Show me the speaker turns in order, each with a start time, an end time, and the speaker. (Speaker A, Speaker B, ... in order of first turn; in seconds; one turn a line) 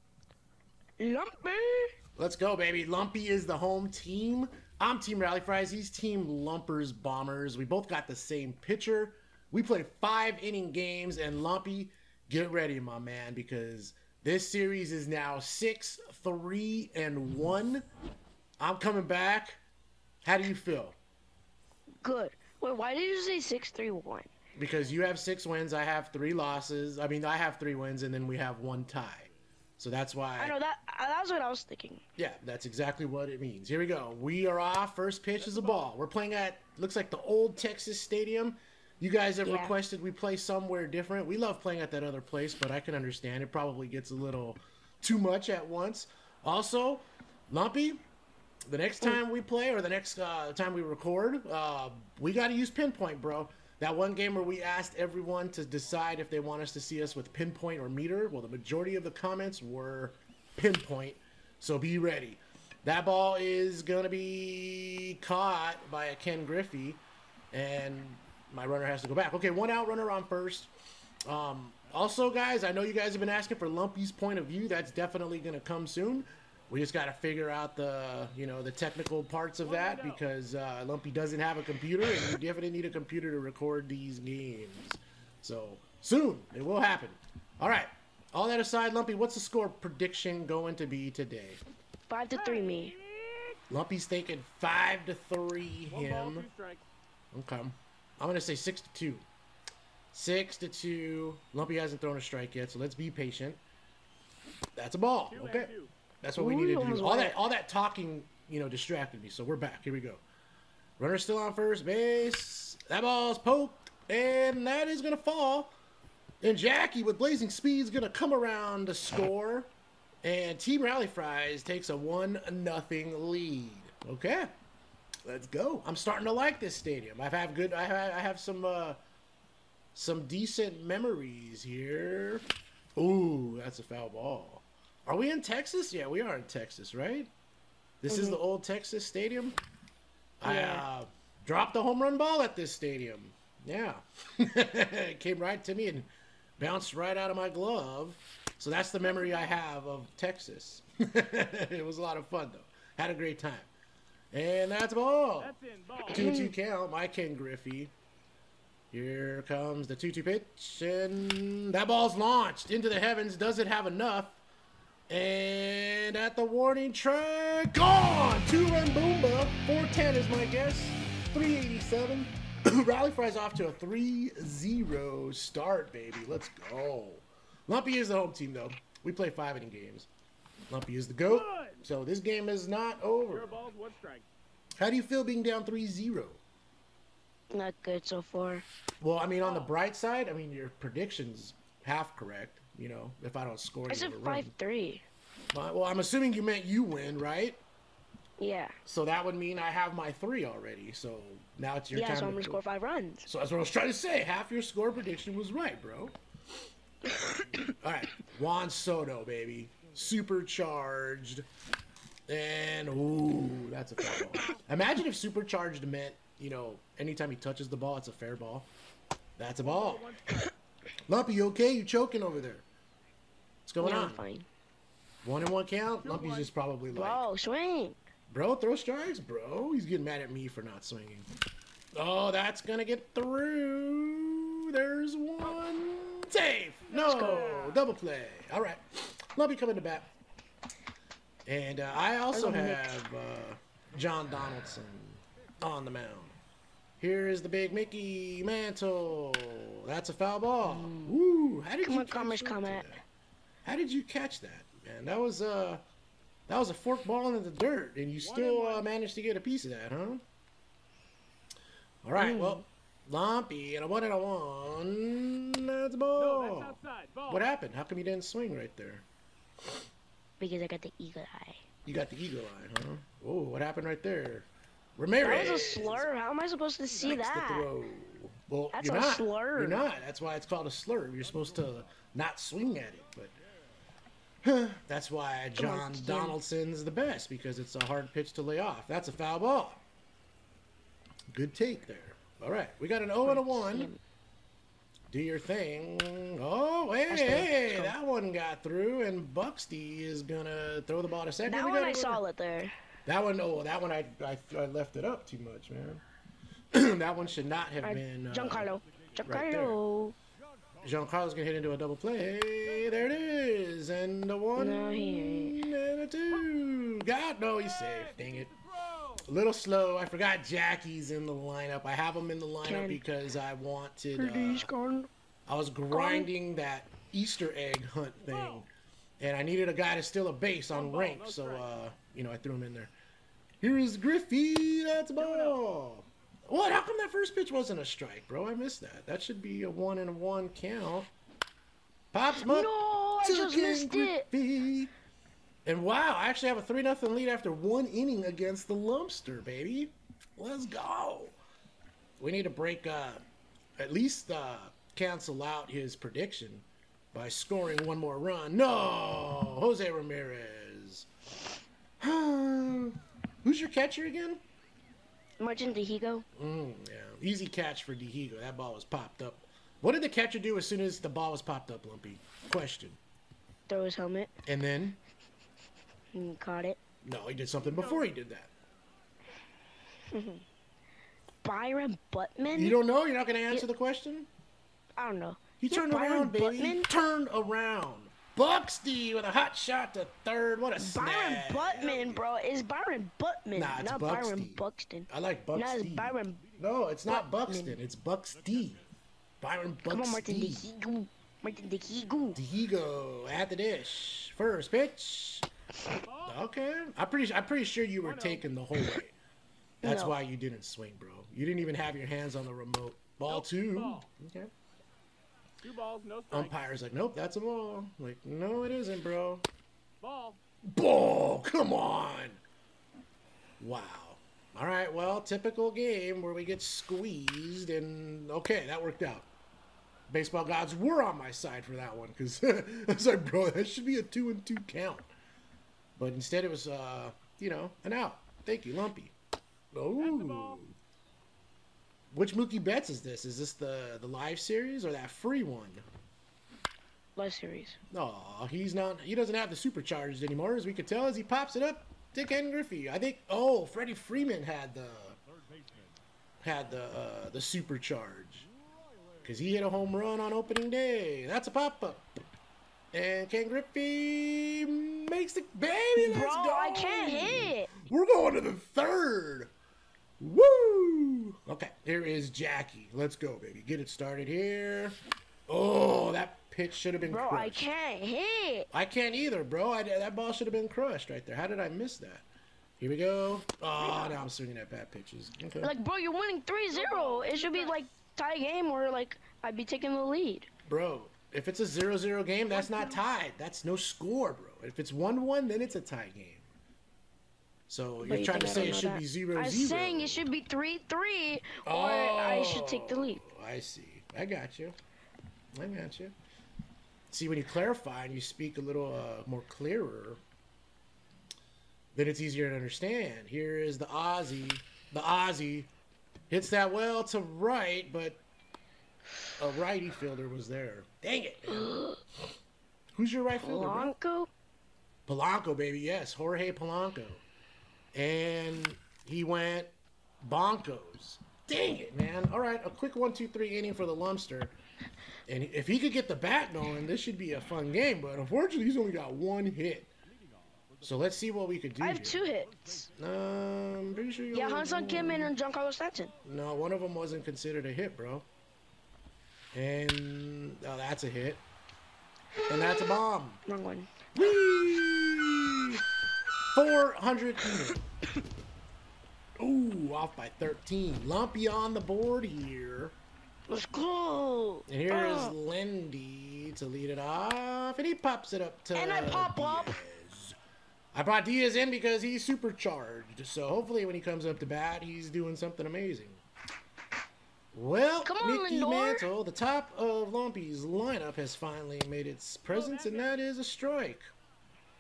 Speaker A: 1.0-1.9
Speaker B: 2.2-17.9
Speaker B: 18.6-19.6
Speaker B: 20.2-21.0
Speaker A: 22.0-24.3
Speaker B: 24.6-30.6
Speaker A: 30.4-32.0
Speaker B: 32.2-48.0
Speaker C: 35.4-35.9
Speaker A: 39.4-39.7
Speaker B: 48.7-67.0
Speaker B: 67.5-70.7
Speaker B: 71.3-91.6
Speaker C: 79.6-80.2
Speaker A: 92.1-92.9
Speaker C: 92.3-93.6
Speaker B: 93.7-96.5
Speaker C: 95.9-96.8
Speaker B: 97.3-99.2
Speaker B: 100.1-103.6
Speaker B: 104.8-105.7
Speaker C: 105.3-105.9
Speaker B: 106.2-110.2
Speaker A: 106.4-107.4
Speaker B: 111.0-115.7
Speaker B: 116.4-119.7
Speaker B: 120.2-124.5
Speaker B: 125.2-129.0
Speaker B: 129.9-137.3
Speaker B: 138.0-139.6
Speaker A: 138.1-138.4
Speaker B: 140.4-153.7
Speaker A: 140.4-140.8
Speaker B: 154.3-155.6
Speaker C: 155.4-156.2
Speaker B: 156.1-157.9
Speaker A: 156.1-156.5
Speaker B: 158.9-164.4
Speaker B: 165.1-180.1
Speaker B: 180.7-183.6
Speaker C: 181.3-181.8
Speaker C: 183.3-184.3
Speaker B: 184.8-186.4
Speaker A: 187.5-188.7
Speaker B: 189.0-194.5
Speaker C: 189.4-189.7
Speaker A: 193.9-195.0
Speaker B: 195.5-197.6
Speaker A: 198.4-198.8
Speaker B: 198.8-202.6
Speaker A: 201.9-203.3
Speaker B: 203.2-206.2
Speaker A: 207.1-207.6
Speaker B: 207.6-211.5
Speaker B: 212.3-218.7
Speaker C: 214.3-214.6
Speaker B: 219.4-220.1
Speaker C: 219.6-220.5
Speaker B: 221.1-222.7
Speaker B: 223.7-224.2
Speaker A: 223.8-224.5
Speaker B: 225.2-227.3
Speaker C: 226.0-226.5
Speaker A: 226.9-228.0
Speaker B: 228.3-231.3
Speaker B: 231.9-240.1
Speaker C: 236.9-237.8
Speaker A: 237.0-237.6
Speaker B: 241.5-246.3
Speaker A: 242.3-243.0
Speaker B: 247.0-253.0
Speaker A: 250.6-251.2
Speaker A: 251.8-252.9
Speaker B: 253.7-255.8
Speaker B: 256.5-260.2
Speaker C: 258.2-258.9
Speaker B: 262.0-266.8
Speaker A: 262.2-262.6
Speaker C: 266.2-267.5
Speaker B: 267.3-269.1
Speaker A: 270.4-271.6
Speaker B: 271.9-276.1
Speaker A: 275.2-277.7
Speaker B: 277.0-283.4
Speaker A: 278.7-279.9
Speaker B: 284.4-289.8
Speaker A: 285.6-286.4
Speaker B: 291.3-293.9
Speaker A: 293.2-294.0
Speaker B: 295.1-302.2
Speaker A: 297.1-297.9
Speaker A: 301.5-302.7
Speaker B: 303.1-306.0
Speaker B: 306.7-308.7
Speaker A: 307.8-310.2
Speaker B: 309.2-309.8
Speaker B: 310.8-318.5
Speaker A: 314.6-315.6
Speaker C: 317.6-319.3
Speaker B: 319.3-324.7
Speaker A: 322.6-323.0
Speaker A: 324.2-325.1
Speaker B: 325.5-328.7
Speaker A: 325.9-326.3
Speaker C: 328.2-328.6
Speaker B: 329.2-332.9
Speaker C: 330.7-331.7
Speaker B: 333.6-341.1
Speaker C: 335.2-335.6
Speaker B: 342.1-344.9
Speaker A: 342.4-344.3
Speaker B: 345.6-351.4
Speaker B: 352.2-353.2
Speaker B: 353.8-361.1
Speaker B: 362.0-364.4
Speaker A: 365.4-366.2
Speaker B: 366.4-373.0
Speaker A: 373.7-374.3
Speaker B: 374.5-375.0
Speaker A: 376.1-376.8
Speaker B: 377.0-378.5
Speaker C: 377.6-378.1
Speaker A: 380.1-380.4
Speaker A: 381.4-382.8
Speaker B: 382.5-384.3
Speaker A: 385.0-386.9
Speaker B: 385.6-392.2
Speaker A: 390.8-396.5
Speaker C: 391.8-392.2
Speaker B: 393.6-398.8
Speaker A: 397.1-397.8
Speaker B: 399.4-400.6
Speaker A: 399.9-402.4
Speaker B: 402.3-405.5
Speaker C: 406.0-406.4
Speaker B: 406.3-409.1
Speaker C: 408.0-408.4
Speaker B: 409.8-414.5
Speaker A: 409.8-410.1
Speaker C: 413.3-414.1
Speaker C: 415.6-416.6
Speaker B: 416.3-419.4
Speaker C: 420.0-420.4
Speaker B: 420.7-422.4
Speaker B: 423.6-429.3
Speaker B: 430.1-435.1
Speaker B: 436.0-439.1
Speaker B: 439.7-440.8
Speaker C: 440.0-440.6
Speaker B: 442.1-445.8
Speaker A: 447.2-447.8
Speaker B: 447.9-455.2
Speaker B: 456.4-458.5
Speaker B: 459.2-462.1
Speaker B: 462.9-469.5
Speaker A: 466.0-467.7
Speaker B: 470.2-477.7
Speaker A: 477.0-478.7
Speaker B: 478.7-482.2
Speaker B: 482.8-485.7
Speaker C: 483.8-484.2
Speaker A: 485.6-490.5
Speaker C: 486.7-487.8
Speaker B: 490.7-496.5
Speaker C: 492.5-493.1
Speaker B: 497.7-500.3
Speaker A: 498.0-503.2
Speaker B: 501.6-504.8
Speaker B: 505.6-506.1
Speaker B: 507.1-510.2
Speaker B: 511.9-515.7
Speaker B: 516.3-518.2
Speaker B: 519.4-521.8
Speaker A: 521.5-522.0
Speaker B: 523.0-523.9
Speaker A: 523.4-524.3
Speaker B: 525.1-527.2
Speaker B: 527.9-534.5
Speaker B: 535.3-539.9
Speaker B: 540.8-542.2
Speaker A: 541.8-542.9
Speaker B: 542.9-545.3
Speaker A: 544.3-546.1
Speaker B: 546.2-548.3
Speaker B: 549.5-551.4
Speaker B: 552.5-553.4
Speaker A: 552.5-553.0
Speaker A: 553.5-554.0
Speaker B: 554.1-555.8
Speaker B: 556.5-557.8
Speaker B: 559.4-563.0
Speaker A: 563.5-565.4
Speaker B: 564.7-570.4
Speaker A: 568.7-569.8
Speaker B: 570.9-576.2
Speaker B: 577.5-584.1
Speaker A: 578.0-579.1
Speaker C: 582.5-583.2